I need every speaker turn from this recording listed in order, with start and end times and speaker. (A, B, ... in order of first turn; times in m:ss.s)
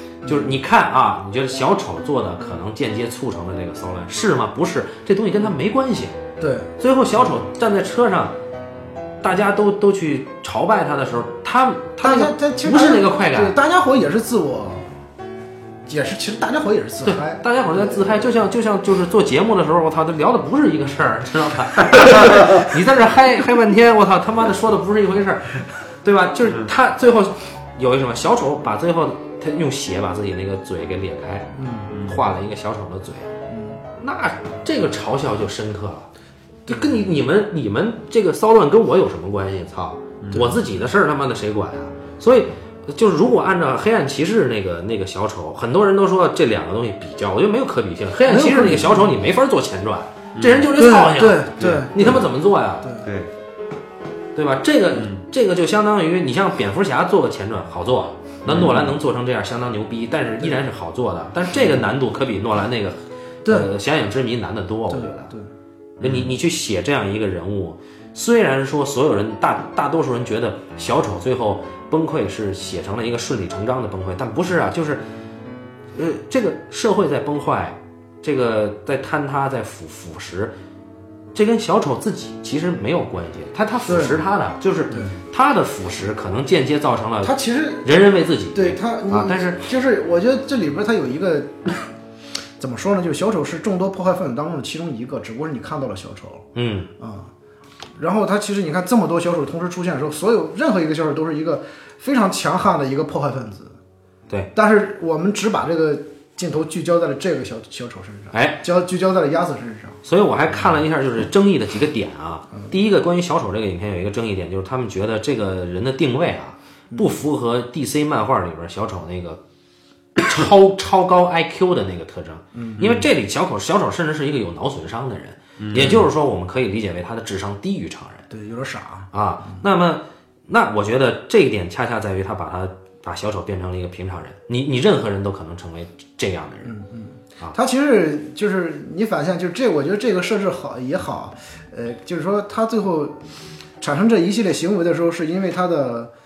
0:00.2-0:06.2 A
0:00.2-0:00.6 B
0:06.4-0:06.7 B
0:06.8-0:08.4 A
0:09.2-0:13.6 A
0:12.0-0:15.0 B
0:15.9-0:18.2 B
0:17.0-0:33.3 A
0:31.6-0:32.0 B
0:33.5-0:33.8 B
0:34.0-0:36.1 A
0:36.7-0:52.9 A
0:36.7-0:37.1 B
0:48.3-0:49.1 B
0:50.4-0:50.7 C
0:50.8-0:52.2 B
0:51.6-0:51.9 C
0:53.0-0:53.3 C
0:54.4-1:05.3 A
0:58.5-0:58.8 C
1:04.9-1:05.5 B
1:06.0-1:06.3 C
1:06.0-1:15.0 A
1:16.0-1:20.5 A
1:21.3-1:29.6 A
1:23.9-1:24.2 B
1:24.9-1:25.2 B
1:27.2-1:27.9 B
1:28.5-1:31.9 B
1:32.6-1:36.5 B
1:36.6-1:36.9 A
1:37.0-1:37.3 B
1:38.0-1:43.8 B
1:44.6-1:50.0 B
1:48.3-1:48.6 A
1:50.0-1:59.4 A
2:00.2-2:08.3 A
2:02.6-2:02.8 B
2:02.8-2:03.0 C
2:05.6-2:06.0 C
2:05.8-2:06.1 B
2:08.3-2:09.6 B
2:09.1-2:16.8 A
2:16.6-2:23.2 B
2:23.8-2:26.1 B